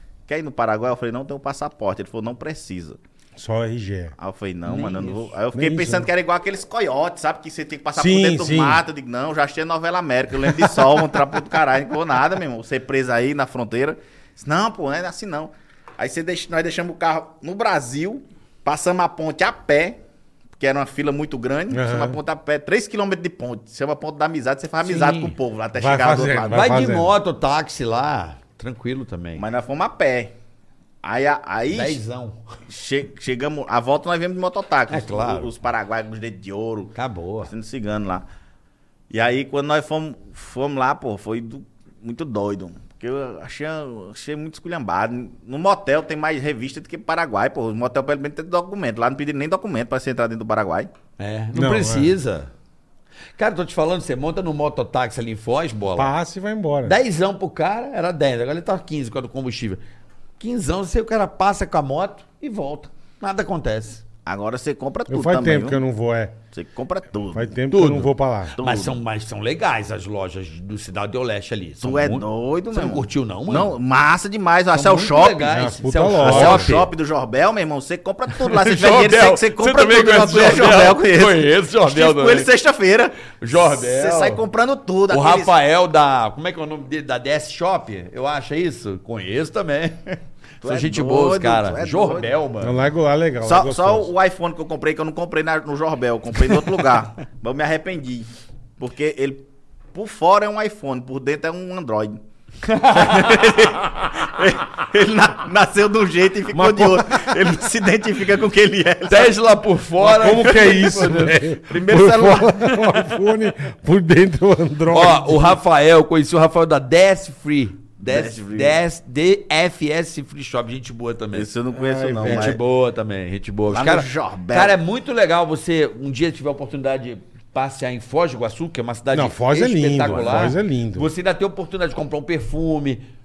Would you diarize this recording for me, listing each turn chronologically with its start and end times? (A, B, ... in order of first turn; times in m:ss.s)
0:00.3-0:03.0 A
0:03.4-0:04.2 B
0:04.2-0:20.0 A
0:04.6-0:05.3 C
0:05.5-0:06.1 B
0:08.0-0:08.8 B
0:20.6-0:26.9 A
0:21.7-0:22.2 B
0:24.8-0:25.4 C
0:25.8-0:27.1 B
0:26.5-0:29.4 C
0:29.4-0:30.3 A
0:31.0-0:32.0 A
0:31.7-0:32.4 C
0:32.7-0:38.3 A
0:34.9-0:35.5 C
0:37.0-0:37.5 C
0:39.1-0:50.9 A
0:51.2-0:52.5 C
0:51.5-0:52.2 B
0:53.4-0:56.1 C
0:56.0-0:57.0 B
0:56.8-0:59.8 C
1:00.4-1:04.0 C
1:04.3-1:05.8 A
1:05.1-1:06.4 B
1:06.5-1:07.6 A
1:07.3-1:08.6 B
1:07.7-1:13.8 C
1:08.6-1:09.0 A
1:11.8-1:25.6 A
1:14.7-1:16.9 C
1:15.5-1:16.8 B
1:18.3-1:22.5 C
1:23.4-1:24.4 C
1:25.1-1:32.8 C
1:30.6-1:32.3 A
1:32.6-1:34.1 B
1:33.4-1:42.2 A
1:42.6-1:44.1 C
1:42.9-1:49.4 A
1:46.5-1:47.3 B
1:49.1-1:51.4 C
1:50.0-1:55.5 B
1:50.2-1:52.9 A
1:54.9-2:01.5 C
1:58.1-1:58.8 A
2:01.3-2:02.6 A
2:01.8-2:02.6 B
2:02.2-2:13.0 C
2:03.7-2:04.8 A
2:09.1-2:11.1 B
2:10.1-2:10.4 A